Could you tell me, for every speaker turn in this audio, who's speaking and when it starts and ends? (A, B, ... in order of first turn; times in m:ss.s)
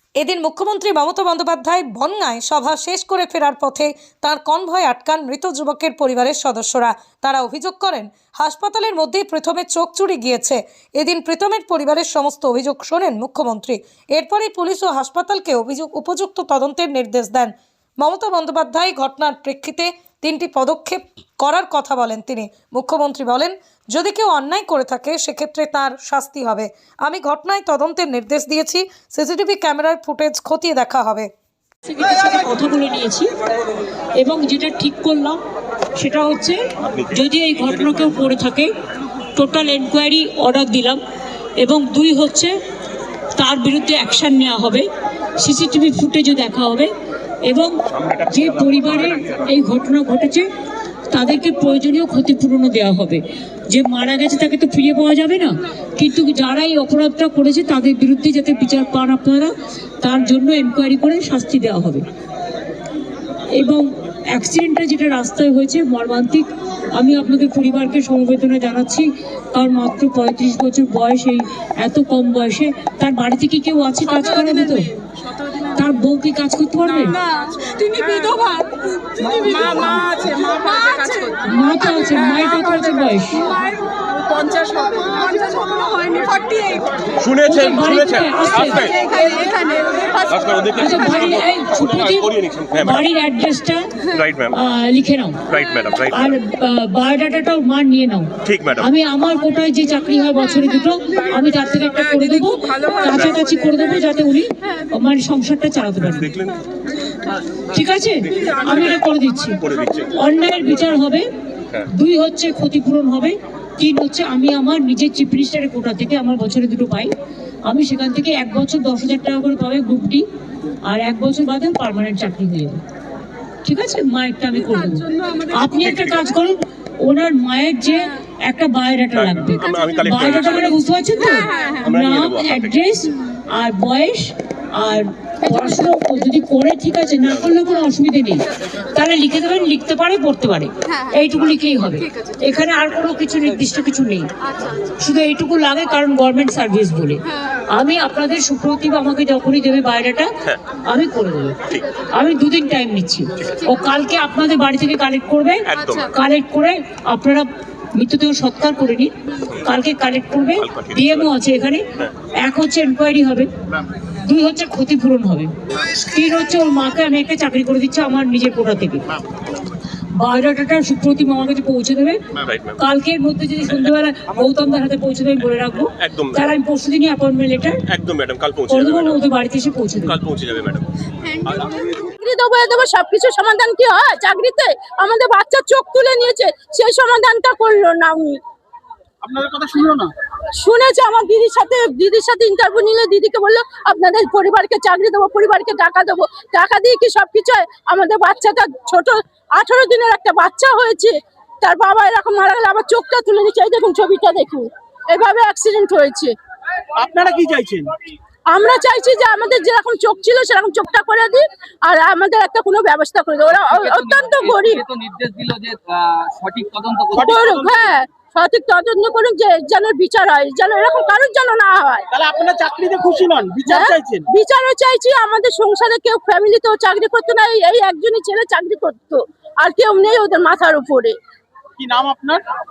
0:00.2-0:31.3 A
0:31.9-0:33.3 B
0:34.2-0:35.4 B
0:36.0-0:38.7 B
0:39.4-0:41.0 B
0:41.6-0:42.6 B
0:43.4-0:44.9 B
0:45.4-0:46.9 B
0:47.4-0:50.5 B
0:51.1-1:02.0 B
1:03.5-1:14.9 B
1:15.6-1:17.2 B
1:17.8-1:18.7 C
1:19.5-1:20.0 B
1:20.2-1:21.2 C
1:21.4-1:23.5 B
1:24.6-1:26.7 C
1:27.2-1:27.4 D
1:27.4-1:29.3 B
1:30.3-1:30.8 D
1:30.6-1:46.4 B
1:32.2-1:32.9 D
1:34.2-1:34.5 D
1:35.5-1:36.2 D
1:38.5-1:38.8 D
1:47.7-1:57.1 B
1:49.7-1:50.0 D
1:57.6-2:00.2 B
2:00.8-2:02.8 B
2:03.6-2:24.3 B
2:09.7-2:10.6 D
2:25.0-2:30.3 B
2:30.8-2:31.6 B
2:32.1-2:43.5 B
2:35.7-2:36.1 D
2:44.2-2:49.1 B
2:50.2-2:52.2 B
2:52.4-2:52.7 D
2:52.8-2:57.8 B
2:57.9-2:59.0 D
2:58.7-3:00.2 B
3:00.2-3:00.9 D
3:02.0-3:08.4 E
3:09.2-3:10.1 F
3:10.6-3:26.3 E
3:27.0-3:27.9 F
3:28.5-3:34.7 E
3:33.5-3:37.3 G
3:37.1-3:37.9 F
3:37.4-3:42.0 E
3:42.1-3:44.2 F
3:44.3-3:51.2 E
3:51.8-3:52.4 F